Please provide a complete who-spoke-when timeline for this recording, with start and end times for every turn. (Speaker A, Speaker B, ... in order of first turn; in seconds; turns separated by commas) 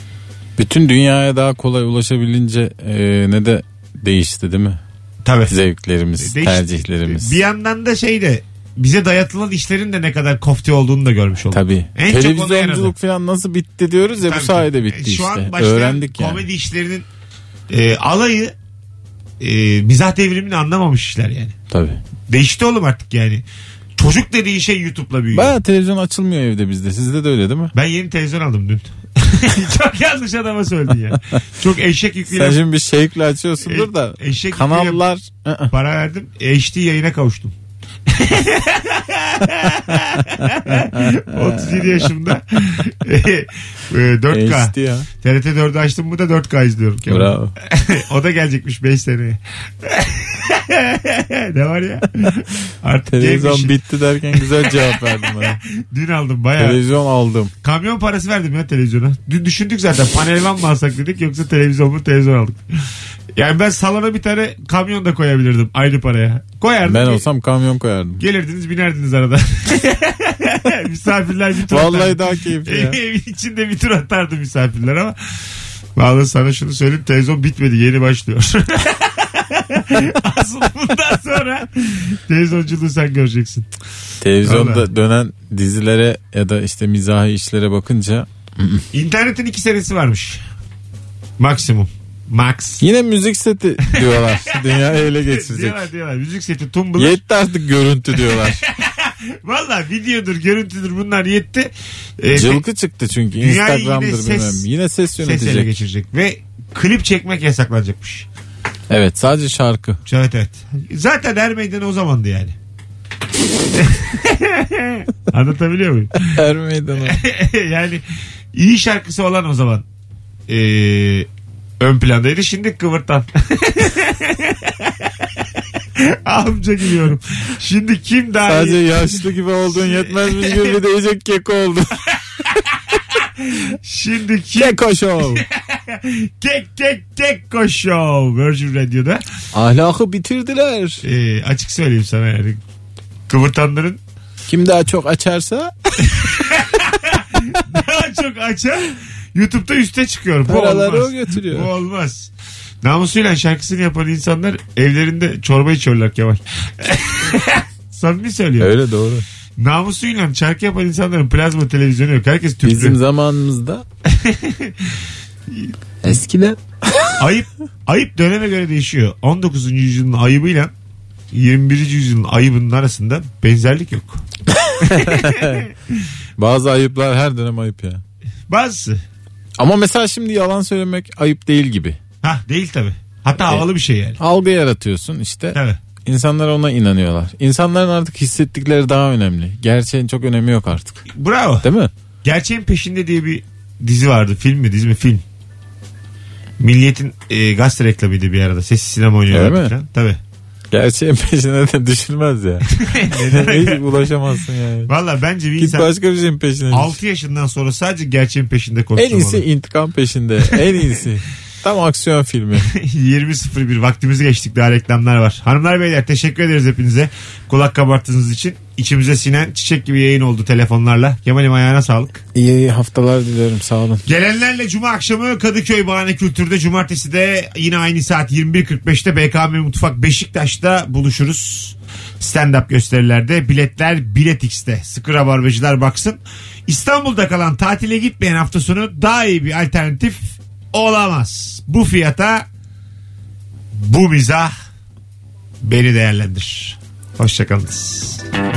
Speaker A: 0.6-4.8, Speaker B: 5.2-5.5, Speaker A: 5.5-7.3, Speaker B: 6.2-12.9, Speaker A: 11.5-16.4, Speaker B: 14.2-17.1, Speaker B: 17.7-18.5, Speaker B: 19.4-21.6, Speaker A: 21.7-22.0, Speaker B: 22.3-23.4, Speaker B: 23.9-25.5, Speaker A: 25.3-27.7, Speaker B: 27.7-32.6, Speaker A: 32.3-35.7, Speaker B: 33.6-35.0, Speaker B: 35.7-37.5, Speaker B: 38.1-53.8, Speaker A: 39.9-42.1, Speaker A: 44.3-45.1, Speaker A: 47.1-47.5, Speaker A: 53.1-55.6, Speaker B: 54.3-56.8, Speaker A: 56.6-57.5, Speaker B: 57.6-62.6, Speaker B: 63.3-67.2, Speaker A: 66.8-68.2, Speaker B: 68.2-75.2, Speaker A: 71.7-73.0, Speaker B: 76.0-83.7, Speaker A: 84.2-88.8, Speaker B: 84.4-84.8, Speaker B: 88.9-90.4, Speaker B: 91.4-92.8, Speaker A: 92.8-95.8, Speaker B: 93.9-97.2, Speaker A: 97.0-98.6, Speaker B: 98.1-102.6, Speaker A: 102.3-105.7, Speaker B: 103.4-104.7, Speaker B: 105.2-108.3, Speaker A: 108.9-110.0, Speaker B: 110.0-112.5, Speaker B: 113.7-116.3, Speaker A: 116.3-117.2, Speaker B: 117.0-119.8, Speaker B: 120.5-121.3, Speaker B: 121.8-125.2, Speaker B: 126.0-130.8, Speaker A: 128.5-132.0, Speaker B: 133.4-139.2, Speaker A: 134.6-135.4, Speaker A: 139.5-141.0, Speaker B: 141.0-142.6, Speaker B: 143.3-144.0, Speaker A: 144.5-145.7, Speaker B: 146.1-152.3, Speaker A: 150.5-151.7, Speaker B: 152.8-158.8, Speaker A: 158.6-159.2, Speaker B: 159.6-163.0, Speaker A: 162.6-163.8, Speaker B: 164.1-165.7, Speaker A: 166.0-166.6, Speaker B: 167.2-170.7, Speaker B: 171.3-174.2, Speaker A: 174.8-175.6, Speaker B: 174.9-175.7, Speaker A: 176.4-178.0, Speaker B: 178.5-179.0, Speaker A: 179.6-182.0, Speaker B: 182.2-184.2, Speaker A: 184.2-191.0, Speaker B: 185.5-185.8, Speaker B: 191.1-191.7, Speaker A: 191.6-191.9, Speaker B: 192.2-195.2, Speaker B: 196.6-200.2, Speaker A: 199.3-199.7, Speaker A: 200.7-204.9, Speaker B: 202.7-204.0, Speaker B: 204.9-205.9, Speaker A: 205.6-207.0, Speaker B: 206.7-209.4, Speaker A: 208.9-212.7, Speaker B: 212.6-222.2, Speaker A: 222.3-224.0, Speaker B: 224.1-242.5, Speaker B: 243.7-244.5, Speaker B: 245.6-248.2